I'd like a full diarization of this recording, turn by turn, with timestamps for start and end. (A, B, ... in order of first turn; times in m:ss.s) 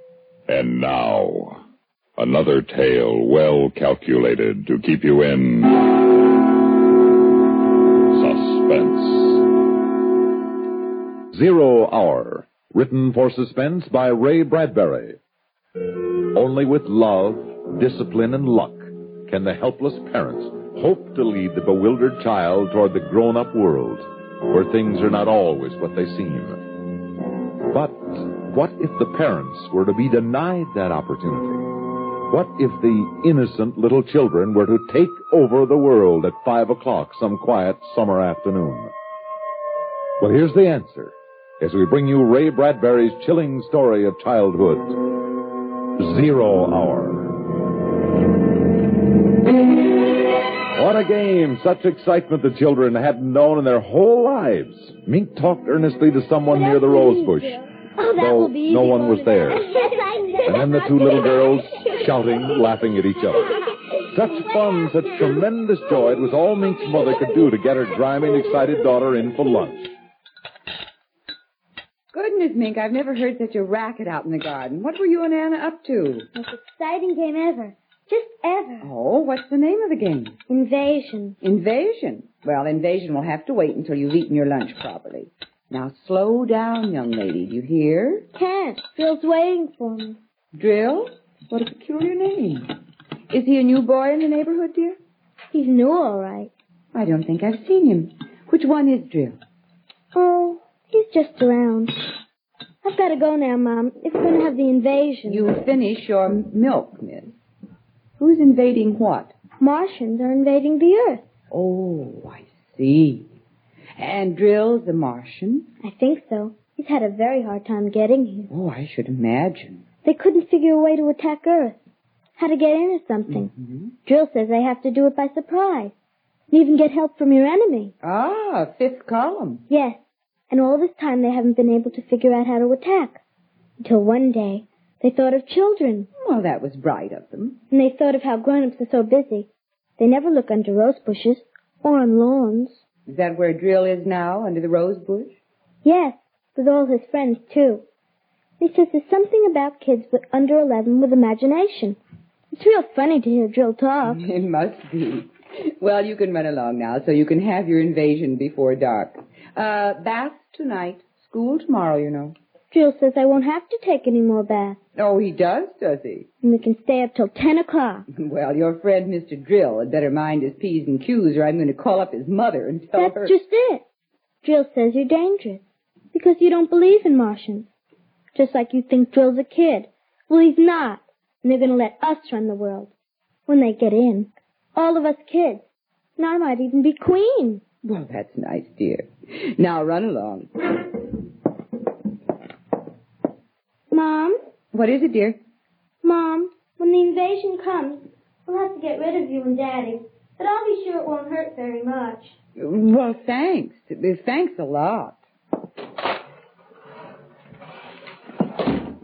0:00.5-0:01.6 A
0:02.2-0:05.8 A
0:08.1-0:09.4 A
0:11.3-0:15.2 B
0:16.3-0:26.6 B
0:27.7-0:31.7 B
0:32.3-0:38.9 B
0:40.2-0:45.2 B
0:46.0-0:47.5 B
0:50.7-0:57.6 B
0:56.5-1:01.6 C
0:58.2-0:59.6 B
1:00.4-1:03.5 B
1:04.0-1:09.9 B
1:12.1-1:16.3 D
1:16.3-1:18.9 C
1:18.8-1:20.3 D
1:20.5-1:21.4 C
1:21.4-1:28.3 D
1:28.3-1:30.2 C
1:30.5-1:32.7 D
1:33.3-1:35.0 D
1:35.5-1:36.5 C
1:36.9-1:39.4 D
1:40.1-1:42.0 C
1:42.8-1:45.5 C
1:45.3-1:47.4 D
1:48.2-1:49.3 D
1:49.6-1:51.2 C
1:51.5-1:53.3 D
1:54.0-1:55.7 D
1:55.8-1:58.5 C
1:58.5-1:59.8 D
2:00.0-2:01.8 C
2:02.4-2:03.5 C
2:03.5-2:03.9 D
2:04.0-2:05.9 C
2:06.5-2:07.9 C
2:08.0-2:09.6 D
2:09.7-2:10.0 C
2:10.5-2:13.2 C
2:13.8-2:16.1 C
2:16.2-2:17.6 D
2:17.7-2:22.8 C
2:23.1-2:25.4 D
2:25.8-2:27.8 C
2:28.6-2:32.0 C
2:32.5-2:34.2 C
2:34.0-2:42.3 D
2:42.7-2:44.8 C
2:45.0-2:46.3 D
2:46.4-2:48.0 C
2:48.1-2:53.3 D
2:52.9-2:53.8 C
2:54.4-2:57.7 C
2:58.3-3:02.9 C
3:03.5-3:05.6 C
3:06.2-3:07.6 C
3:07.8-3:10.5 D
3:13.9-3:14.4 C
3:14.7-3:15.4 D
3:16.0-3:22.3 C
3:22.6-3:25.2 D